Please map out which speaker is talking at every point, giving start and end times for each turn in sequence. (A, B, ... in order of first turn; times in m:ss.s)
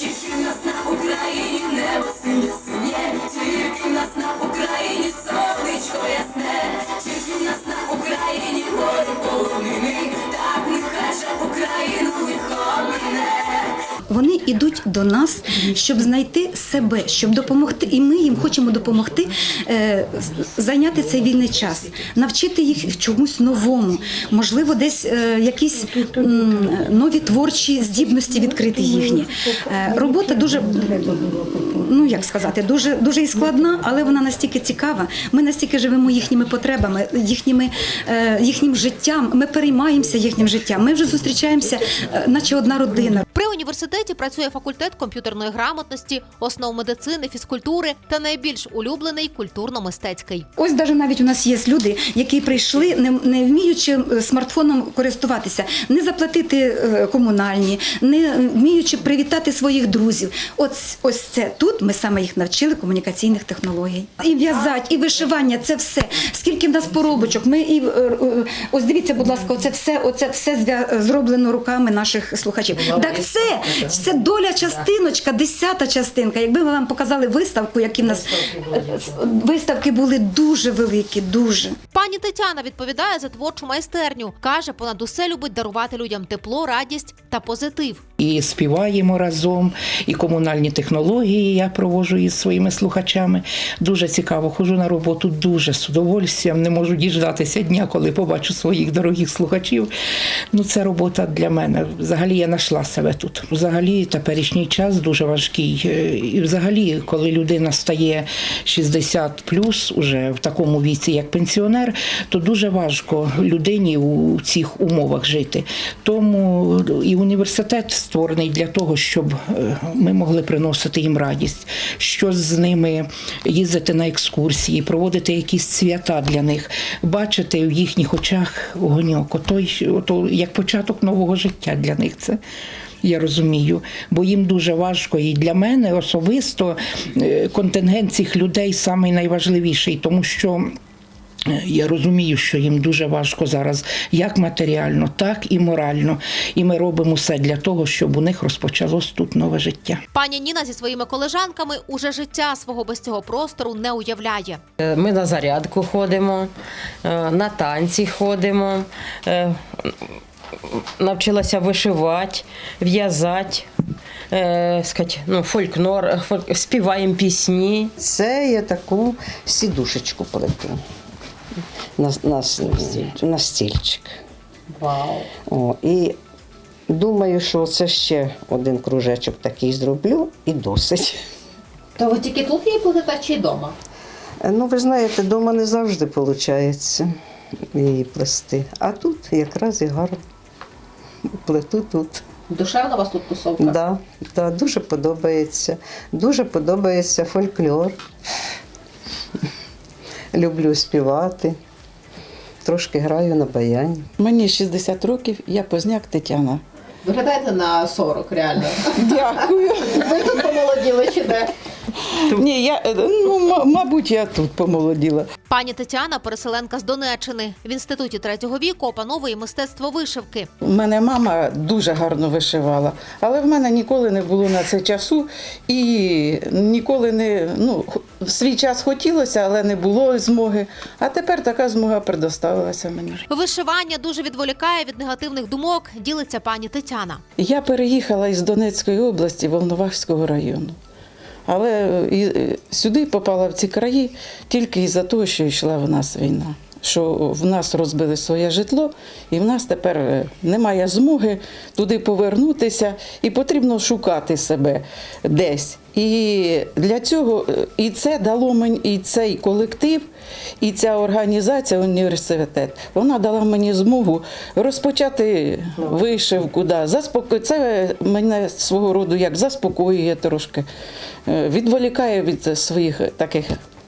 0:00.4-0:01.4 A
0:02.0-0:02.7 A
0:04.1-0:06.3 A
0:07.5-0:12.6 A
0:14.1-0:43.2 B
0:43.3-0:50.5 A
0:50.6-1:21.8 B
1:21.9-1:28.0 A
1:28.2-1:39.9 C
1:40.5-2:12.4 C
2:13.0-2:20.7 C
2:21.5-2:30.0 C
2:30.1-2:34.6 A
2:34.8-2:36.5 D
2:37.0-2:39.9 D
2:40.7-2:43.7 D
2:44.3-2:47.9 D
2:48.0-2:50.8 E
2:52.0-2:54.2 E
2:54.8-2:55.2 D
2:55.5-2:56.2 E
2:56.9-3:01.2 E
3:02.7-3:03.7 A
3:04.4-3:07.1 E
3:07.7-3:10.2 E
3:11.4-3:12.2 E
3:13.6-3:18.0 E
3:20.3-3:21.6 E
3:22.6-3:24.1 E
3:24.2-3:26.6 F
3:27.1-3:28.7 A
3:28.9-3:30.7 F
3:30.7-3:31.4 A
3:32.1-3:35.3 F
3:35.5-3:40.5 A
3:40.6-3:53.2 F
3:53.3-3:57.2 A
3:57.4-4:00.8 F
4:01.5-4:20.1 F
4:20.6-4:30.7 F
4:31.3-4:33.6 F